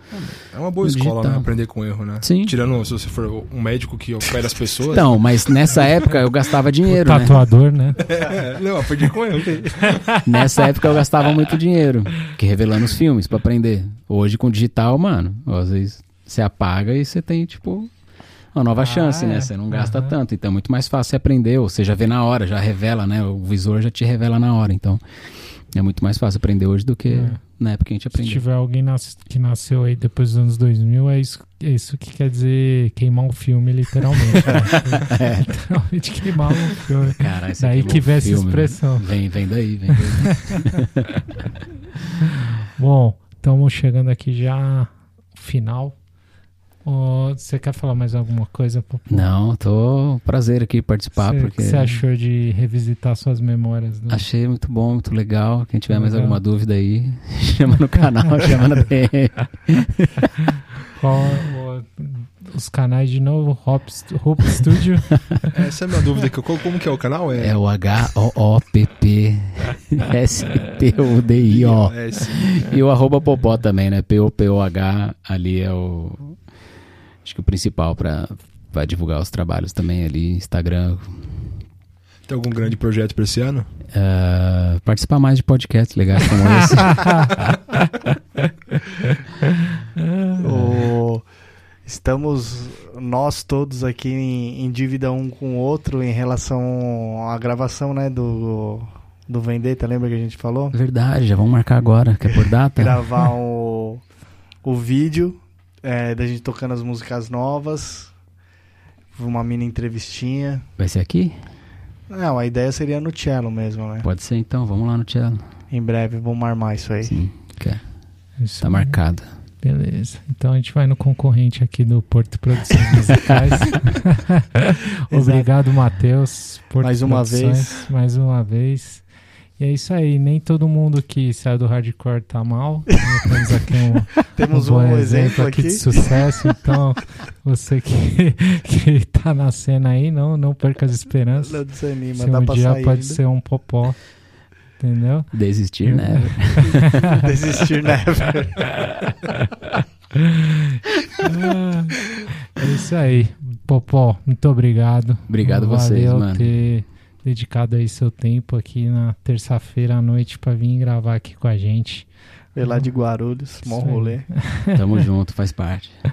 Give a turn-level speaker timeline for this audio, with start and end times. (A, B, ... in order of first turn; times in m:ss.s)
0:00.1-0:05.1 A
0:00.8-0:01.5 B
0:02.2-0:02.6 B
0:04.9-0:07.4 B
0:06.8-0:08.1 C
0:08.0-0:10.2 A
0:09.9-0:10.4 C
0:10.2-0:17.9 B
0:18.5-0:25.0 B
0:18.8-0:20.2 C
0:25.7-0:28.4 B
0:27.1-0:27.4 C
0:28.1-0:39.1 C
0:34.3-0:35.5 B
0:37.1-0:41.4 B
0:40.0-0:40.8 C
0:42.2-0:46.0 C
0:46.8-0:49.3 C
0:49.1-0:52.0 B
0:51.2-0:54.2 C
0:54.1-1:00.3 B
0:55.9-0:56.4 C
1:00.9-1:05.5 C
1:05.5-1:07.6 A
1:07.4-1:16.4 B
1:11.4-1:12.6 A
1:17.2-1:21.2 B
1:22.3-1:23.7 A
1:23.9-1:27.4 B
1:26.7-1:27.4 C
1:30.0-1:30.4 C
1:30.4-1:31.2 D
1:30.4-1:30.9 B
1:31.8-1:40.7 D
1:40.7-1:43.2 B
1:42.8-1:44.0 D
1:44.6-1:48.1 D
1:49.1-1:50.6 D
1:50.8-1:51.3 B
1:52.1-1:54.1 D
1:54.0-1:55.4 B
1:55.7-1:57.1 D
1:57.0-1:57.8 B
1:58.4-1:59.0 C
1:58.6-1:59.3 B
1:59.6-2:09.0 C
2:05.1-2:05.5 D
2:06.8-2:07.8 D
2:09.6-2:21.6 C
2:14.3-2:16.2 D
2:21.4-2:23.2 D
2:22.1-2:24.0 C
2:24.8-2:25.3 C
2:25.3-2:27.0 B
2:25.8-2:27.3 C
2:27.0-2:28.7 D
2:30.1-2:42.1 C
2:35.3-2:36.5 B
2:42.5-2:44.2 D
2:43.6-2:44.8 C
2:44.7-2:45.9 B